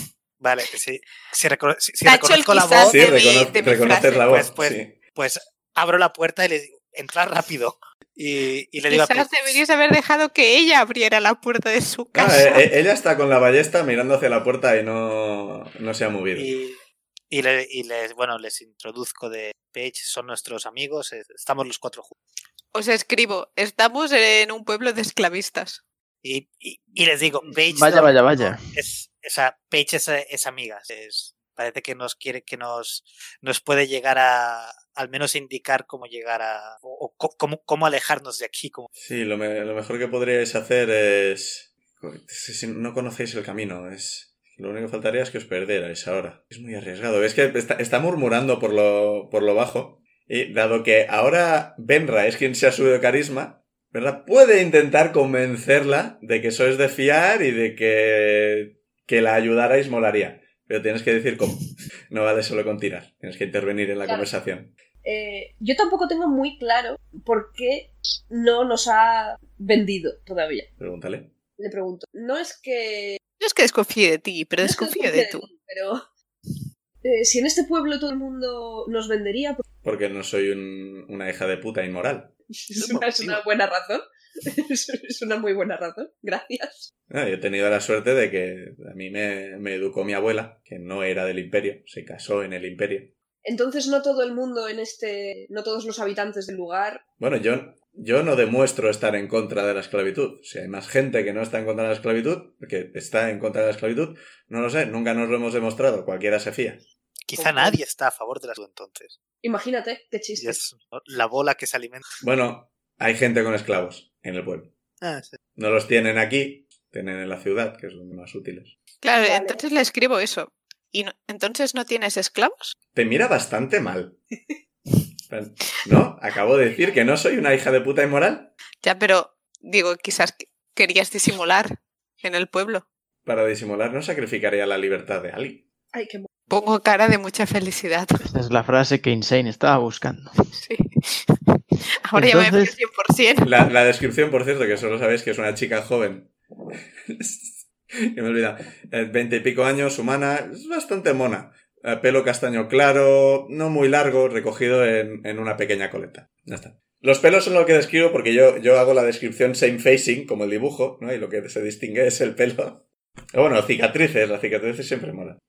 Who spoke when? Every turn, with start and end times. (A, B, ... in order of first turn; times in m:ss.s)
0:00.4-0:03.0 A
0:02.0-0:04.3 B
0:02.9-0:05.0 C
0:04.2-0:09.6 A
0:08.9-0:12.6 B
0:12.1-0:16.5 C
0:16.3-0:16.8 A
0:17.3-0:22.1 A
0:22.7-0:25.8 B
0:26.2-0:38.9 A
0:27.6-0:28.7 D
0:38.9-1:04.7 C
1:05.0-1:10.7 E
1:10.8-1:11.3 C
1:11.6-1:13.2 E
1:13.4-1:15.5 B
1:14.6-1:16.0 E
1:17.0-1:19.6 E
1:19.8-1:22.3 C
1:22.6-1:26.9 E
1:22.8-1:23.4 A
1:27.1-1:33.1 C
1:33.4-1:37.0 E
1:37.2-1:46.8 C
1:47.3-1:49.2 A
1:47.4-1:47.8 E
1:49.4-1:50.6 E
1:50.4-1:52.0 A
1:52.2-1:54.7 C
1:55.0-1:55.4 A
1:55.6-1:58.7 C
1:59.0-2:02.8 B
1:59.2-1:59.6 E
2:02.9-2:04.2 C
2:05.3-2:08.5 C
2:08.8-2:11.7 B
2:12.2-2:12.8 B
2:13.2-2:15.6 C
2:15.9-2:16.3 E
2:16.5-2:18.2 B
2:18.2-2:20.5 D
2:20.6-2:23.5 B
2:22.1-2:22.8 D
2:23.4-2:26.3 C
2:27.1-2:27.5 C
2:28.1-2:45.4 C